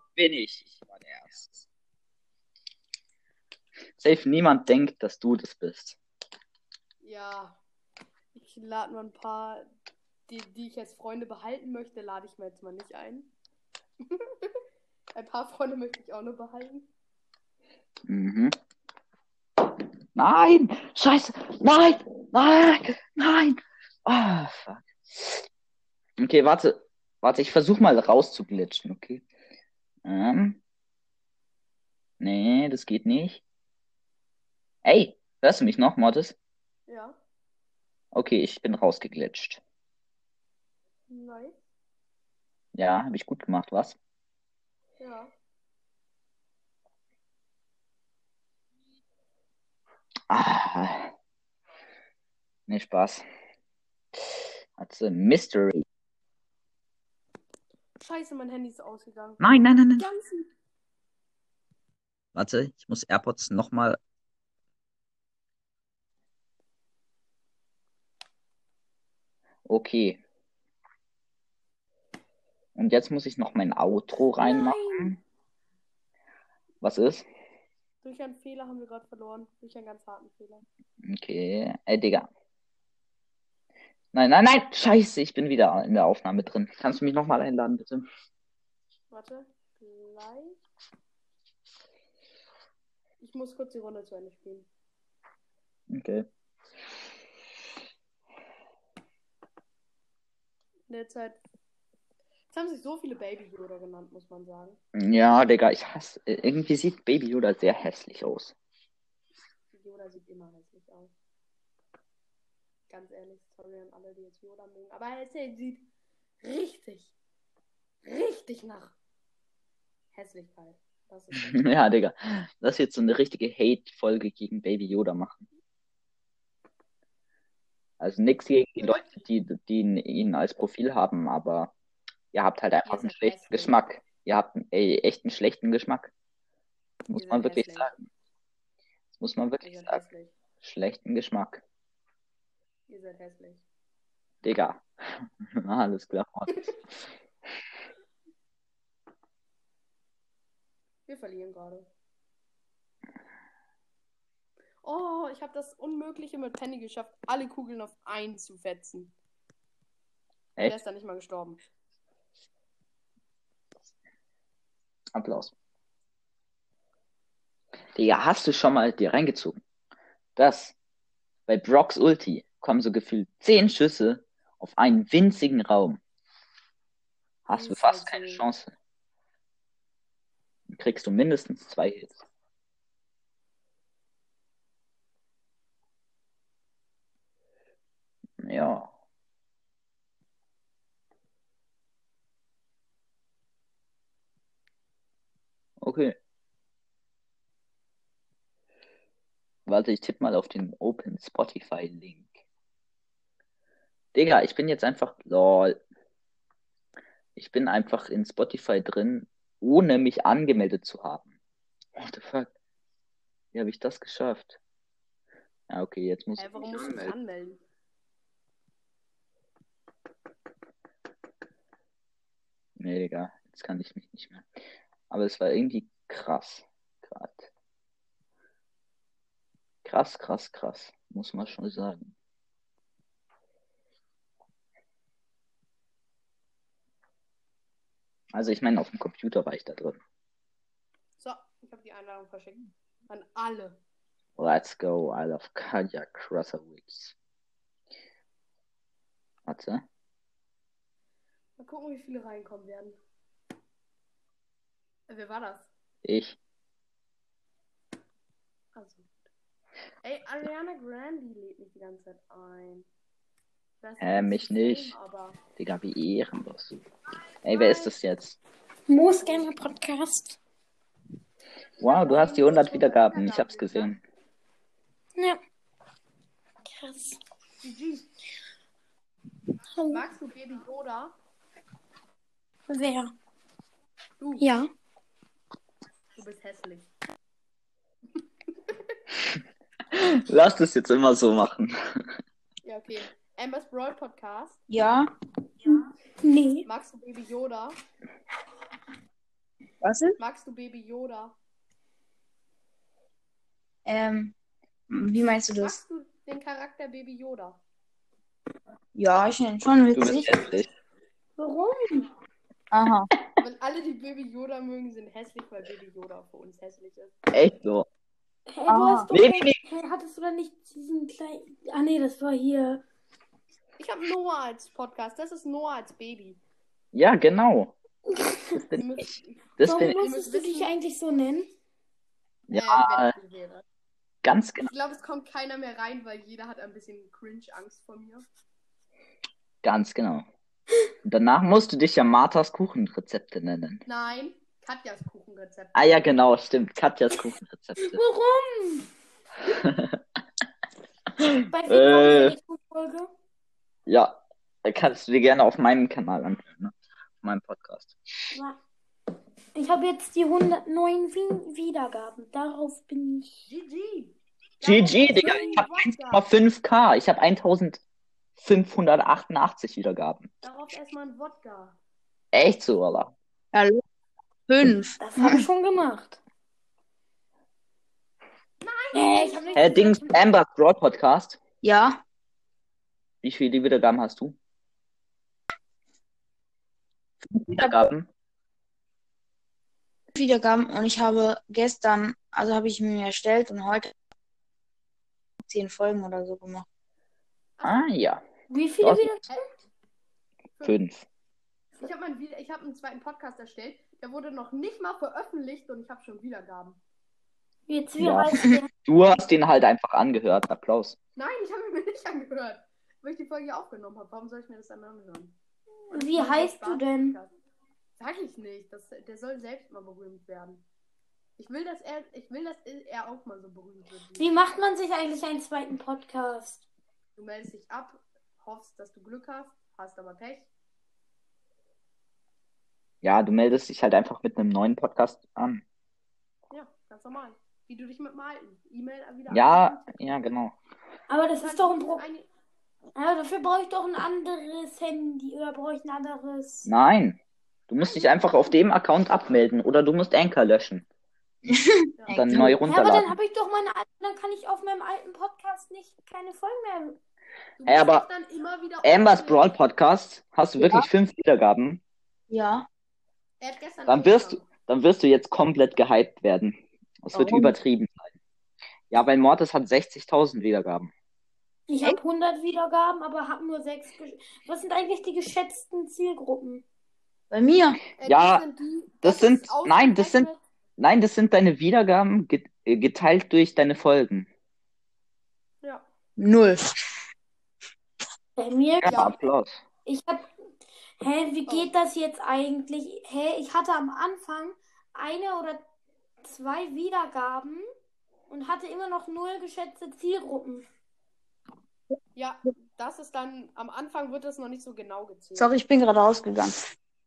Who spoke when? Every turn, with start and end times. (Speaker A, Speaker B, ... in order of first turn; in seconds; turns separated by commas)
Speaker A: 0.1-1.6, Speaker A: 4.0-6.0, Speaker B: 7.0-7.6, Speaker B: 8.3-9.7, Speaker B: 10.3-13.3, Speaker B: 14.0-14.6, Speaker B: 15.1-16.9, Speaker A: 18.1-18.5, Speaker A: 20.1-25.4, Speaker A: 26.2-29.2, Speaker A: 30.0-30.6, Speaker A: 32.2-33.4, Speaker A: 34.8-36.3, Speaker B: 36.9-37.2, Speaker A: 38.1-39.6, Speaker B: 41.1-41.6, Speaker A: 42.7-44.0, Speaker B: 45.0-45.3, Speaker A: 50.3-51.1, Speaker A: 52.7-53.2, Speaker A: 54.8-55.8, Speaker B: 58.0-59.4, Speaker A: 59.4-60.0, Speaker B: 60.0-60.5, Speaker A: 62.3-64.0, Speaker A: 69.7-70.2, Speaker A: 72.7-75.2, Speaker C: 74.4-75.1, Speaker A: 76.8-77.2, Speaker B: 78.0-80.6, Speaker A: 81.0-82.3, Speaker A: 84.1-88.0, Speaker B: 89.1-90.6, Speaker B: 93.2-94.7, Speaker A: 95.9-96.3, Speaker B: 100.9-101.4, Speaker B: 102.5-104.8, Speaker A: 104.9-108.5, Speaker B: 109.7-111.1, Speaker B: 112.9-115.8, Speaker B: 116.4-117.1, Speaker B: 118.0-118.9, Speaker B: 120.1-121.7, Speaker A: 121.4-125.4, Speaker A: 128.0-131.7, Speaker B: 128.8-129.2, Speaker A: 132.3-136.1, Speaker B: 132.8-133.8, Speaker A: 137.1-138.0, Speaker B: 137.1-137.9, Speaker A: 139.2-140.0, Speaker B: 139.6-140.3, Speaker A: 140.6-141.6, Speaker B: 142.9-143.6, Speaker A: 144.4-146.7, Speaker B: 151.1-151.9, Speaker B: 154.8-159.1, Speaker B: 160.6-161.6, Speaker A: 165.1-165.5, Speaker A: 167.9-169.6, Speaker A: 170.3-170.7, Speaker A: 171.5-176.0, Speaker A: 177.4-178.7, Speaker B: 177.5-178.4, Speaker A: 180.7-182.2, Speaker A: 188.4-188.9, Speaker A: 195.8-196.2, Speaker A: 199.7-202.3, Speaker A: 204.1-205.8, Speaker A: 207.3-211.3, Speaker A: 211.9-212.5, Speaker A: 213.5-214.6, Speaker A: 215.7-217.1, Speaker B: 216.4-217.6, Speaker A: 222.8-224.5, Speaker A: 225.1-227.5, Speaker A: 229.8-232.1, Speaker A: 238.3-240.0, Speaker B: 241.2-243.8, Speaker A: 244.4-247.1, Speaker A: 249.4-249.8, Speaker B: 251.6-253.0, Speaker B: 255.1-255.7, Speaker A: 256.0-256.4, Speaker B: 258.7-259.1, Speaker B: 260.0-262.9, Speaker B: 263.8-265.4, Speaker A: 264.0-264.9, Speaker A: 265.6-266.8, Speaker A: 267.4-268.4, Speaker C: 268.9-270.4, Speaker B: 271.8-273.9, Speaker A: 271.8-274.0, Speaker C: 276.7-277.2, Speaker B: 277.6-278.1, Speaker C: 279.8-280.0, Speaker B: 279.9-281.1, Speaker C: 282.7-283.1, Speaker B: 284.2-284.4, Speaker C: 284.4-284.7, Speaker B: 286.1-286.9, Speaker A: 289.9-292.1, Speaker B: 292.6-294.6, Speaker D: 294.7-295.1, Speaker C: 296.2-296.7, Speaker B: 296.6-297.8, Speaker D: 299.8-300.2, Speaker B: 300.2-301.3, Speaker D: 303.9-304.3, Speaker D: 304.9-305.8, Speaker B: 305.6-307.6, Speaker D: 308.9-310.5, Speaker A: 309.9-310.7, Speaker C: 311.4-312.1, Speaker D: 312.7-313.1, Speaker B: 313.4-317.1, Speaker A: 317.3-317.9, Speaker C: 318.5-322.8, Speaker D: 318.7-319.1, Speaker A: 319.1-319.6, Speaker B: 323.8-326.4, Speaker A: 326.9-327.7, Speaker C: 328.1-328.5, Speaker A: 328.6-329.0, Speaker B: 328.8-330.7, Speaker A: 329.6-330.0, Speaker C: 329.6-331.5, Speaker A: 332.5-333.1, Speaker B: 332.5-333.6, Speaker A: 334.2-334.7, Speaker B: 334.6-338.2, Speaker A: 339.6-340.3, Speaker A: 341.0-343.8, Speaker B: 343.9-346.2, Speaker A: 345.7-348.0, Speaker C: 347.8-348.9, Speaker A: 349.5-350.0, Speaker A: 351.2-352.4, Speaker C: 351.5-353.1, Speaker A: 353.9-357.9, Speaker C: 359.5-363.5, Speaker B: 363.5-366.2, Speaker A: 364.6-367.8, Speaker A: 368.4-370.3, Speaker B: 370.4-371.8, Speaker A: 372.3-373.1, Speaker D: 373.5-373.8, Speaker D: 374.5-375.4, Speaker C: 375.0-376.2, Speaker B: 378.6-379.7, Speaker C: 378.9-380.2, Speaker A: 379.5-381.4, Speaker D: 381.6-382.0, Speaker A: 383.2-384.4, Speaker A: 387.3-388.1, Speaker D: 390.1-393.9, Speaker D: 395.4-396.6, Speaker B: 397.6-397.9, Speaker A: 397.6-398.2, Speaker C: 398.5-399.5, Speaker A: 398.8-399.2, Speaker A: 400.6-401.0, Speaker B: 401.8-406.8, Speaker C: 407.7-408.7, Speaker A: 408.0-408.3, Speaker A: 408.9-411.0, Speaker B: 411.1-415.3, Speaker B: 415.9-417.3, Speaker C: 415.9-417.2, Speaker B: 418.0-420.6, Speaker B: 421.4-424.3, Speaker C: 424.2-426.6, Speaker B: 427.1-430.5, Speaker A: 433.0-435.6, Speaker B: 436.5-440.0, Speaker A: 439.3-440.5, Speaker C: 441.1-442.0, Speaker B: 441.4-442.3, Speaker C: 442.9-446.7, Speaker A: 446.6-450.8, Speaker B: 447.8-448.3, Speaker D: 451.5-452.6, Speaker A: 452.1-453.1, Speaker C: 452.6-457.0, Speaker B: 457.6-459.5, Speaker A: 457.6-458.1, Speaker A: 458.8-461.8, Speaker D: 460.6-460.9, Speaker D: 462.3-462.7, Speaker B: 463.4-464.4, Speaker A: 463.9-468.1, Speaker D: 467.1-467.5, Speaker A: 468.9-470.9, Speaker C: 471.7-476.6, Speaker D: 477.3-477.8, Speaker B: 478.0-480.4, Speaker A: 478.0-478.4, Speaker A: 479.0-484.3, Speaker D: 486.2-486.7, Speaker C: 488.4-489.0, Speaker A: 488.8-489.6, Speaker B: 488.9-489.1, Speaker C: 489.9-490.3, Speaker C: 491.0-495.6, Speaker B: 491.5-491.7, Speaker C: 496.2-497.6, Speaker C: 498.3-500.6, Speaker B: 502.1-505.5, Speaker D: 505.4-506.7